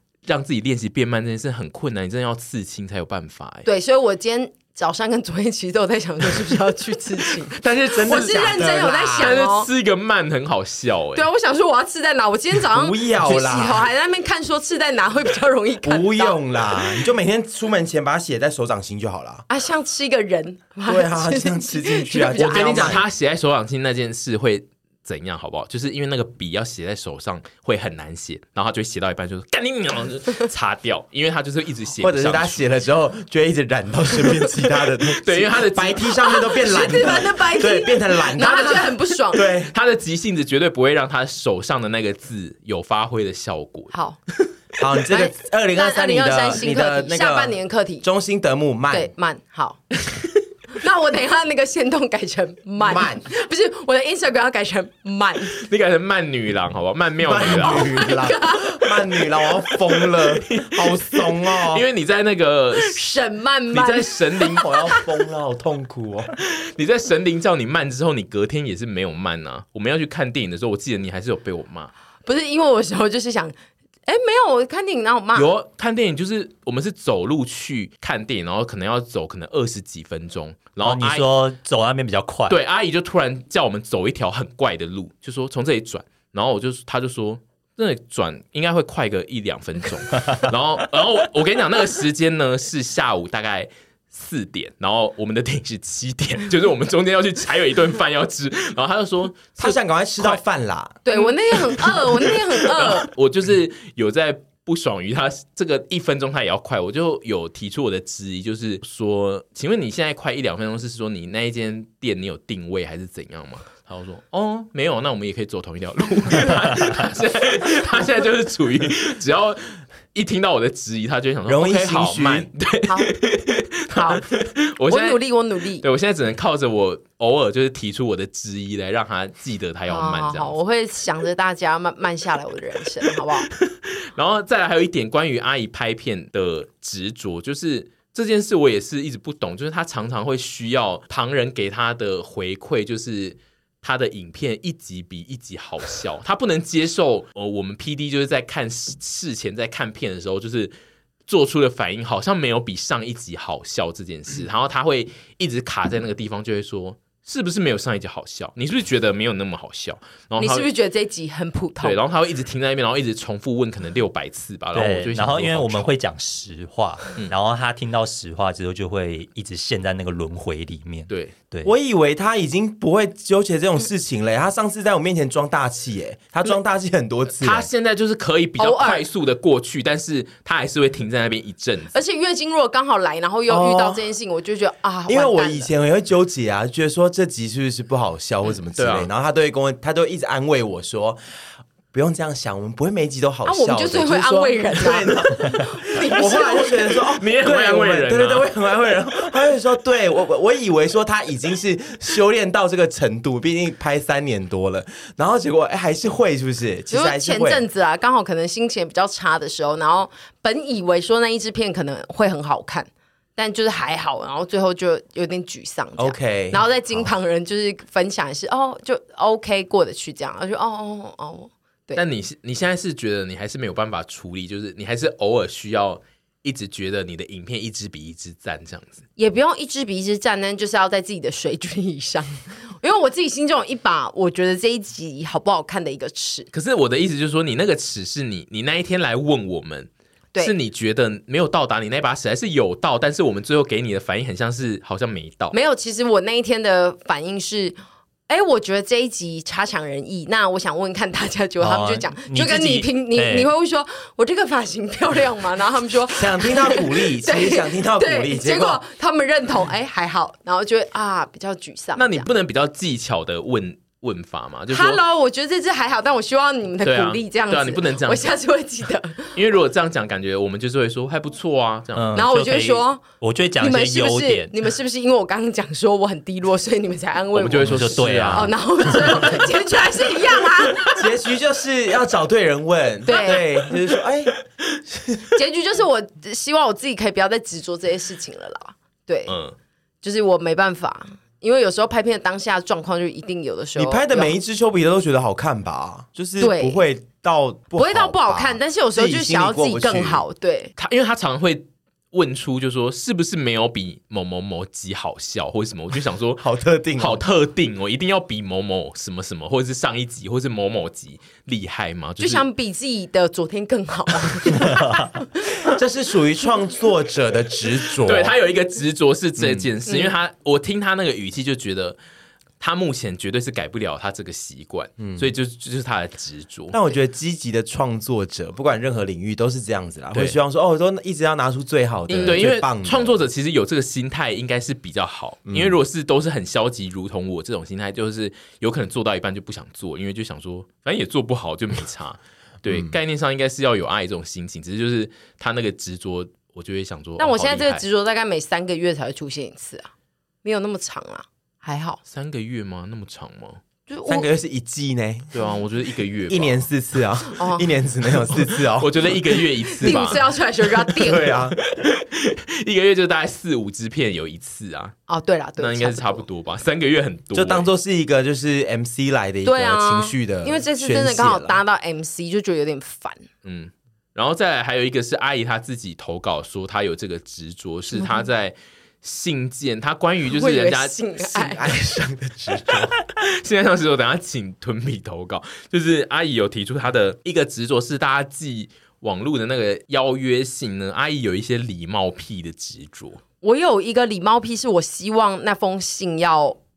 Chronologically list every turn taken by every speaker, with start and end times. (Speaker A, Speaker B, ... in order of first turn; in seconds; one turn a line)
Speaker A: 0.2-3.7
Speaker B: 3.6-9.7
Speaker A: 7.5-11.2
Speaker C: 7.9-9.4
Speaker B: 11.1-16.4
Speaker C: 12.7-13.9
Speaker C: 15.8-19.4
Speaker B: 19.5-23.0
Speaker C: 20.9-23.0
Speaker A: 22.4-32.6
Speaker C: 32.0-39.7
Speaker A: 35.2-36.3
Speaker B: 36.3-39.4
Speaker A: 39.7-43.9
Speaker B: 43.9-44.2
Speaker C: 44.8-49.1
Speaker B: 45.1-48.0
Speaker B: 48.9-49.8
Speaker B: 50.7-55.6
Speaker C: 52.8-53.3
Speaker A: 55.6-58.0
Speaker C: 57.2-61.8
Speaker B: 57.5-59.2
Speaker A: 60.1-63.0
Speaker B: 62.8-65.0
Speaker A: 63.7-64.7
Speaker C: 64.6-66.3
Speaker A: 66.4-71.9
Speaker B: 72.2-73.5
Speaker B: 74.0-75.5
Speaker A: 75.3-81.3
Speaker D: 80.8-82.6
Speaker A: 82.5-100.4
Speaker C: 99.6-101.0
Speaker B: 101.0-103.1
Speaker A: 101.2-125.2
Speaker C: 121.5-122.5
Speaker B: 122.8-123.1
Speaker B: 123.9-124.3
Speaker B: 124.9-125.8
Speaker A: 125.8-130.6
Speaker B: 129.9-133.5
Speaker A: 133.5-150.7
Speaker A: 151.3-160.7
Speaker B: 160.4-162.0
Speaker A: 161.8-165.9
Speaker D: 164.7-171.7
Speaker A: 171.1-171.3
Speaker C: 171.6-177.7
Speaker A: 177.4-181.9
Speaker B: 178.6-179.0
Speaker B: 181.9-185.7
Speaker C: 183.5-184.0
Speaker C: 185.1-191.2
Speaker A: 188.7-189.1
Speaker C: 191.9-207.6
Speaker B: 193.4-196.9
Speaker A: 197.1-198.5
Speaker B: 206.9-222.0
Speaker C: 216.0-217.0
Speaker A: 221.9-229.0
Speaker B: 229.2-236.5
Speaker A: 236.5-245.5
Speaker B: 245.5-247.8
Speaker B: 248.3-262.3
Speaker D: 251.6-253.5
Speaker C: 256.1-258.8
Speaker A: 261.9-265.0
Speaker B: 264.7-269.4
Speaker A: 266.8-268.3
Speaker A: 269.3-272.2
Speaker D: 271.9-274.5
Speaker B: 272.1-273.0
Speaker B: 273.6-281.0
Speaker A: 277.3-279.3
Speaker D: 277.6-279.4
Speaker C: 280.9-284.3
Speaker B: 283.1-283.5
Speaker B: 285.3-289.4
Speaker A: 289.3-289.5
Speaker B: 290.0-294.3
Speaker C: 293.8-300.2
Speaker B: 296.4-296.8
Speaker B: 297.8-300.7
Speaker A: 300.8-306.4
Speaker C: 306.4-307.2
Speaker A: 307.0-312.4
Speaker B: 312.2-315.3
Speaker C: 315.6-318.3
Speaker A: 318.0-322.0
Speaker C: 319.4-319.7
Speaker B: 319.9-320.1
Speaker A: 322.6-326.8
Speaker C: 325.0-325.3
Speaker C: 326.7-333.2
Speaker A: 332.1-347.8
Speaker C: 335.5-335.8
Speaker C: 342.7-342.9
Speaker B: 347.2-349.9
Speaker B: 350.4-352.0
Speaker A: 352.1-353.6
Speaker B: 353.9-354.3
Speaker C: 354.1-355.4
Speaker A: 355.3-356.6
Speaker C: 356.3-360.2
Speaker B: 357.3-357.6
Speaker A: 358.3-360.3
Speaker B: 359.8-361.3
Speaker C: 360.9-361.6
Speaker A: 361.6-364.9
Speaker B: 365.1-366.2
Speaker A: 365.6-367.7
Speaker C: 367.3-371.6
Speaker B: 369.4-373.2
Speaker A: 373.4-381.0
Speaker B: 377.9-378.3
Speaker B: 380.3-381.7
Speaker C: 381.2-383.0
Speaker A: 382.7-393.2
Speaker B: 393.4-396.6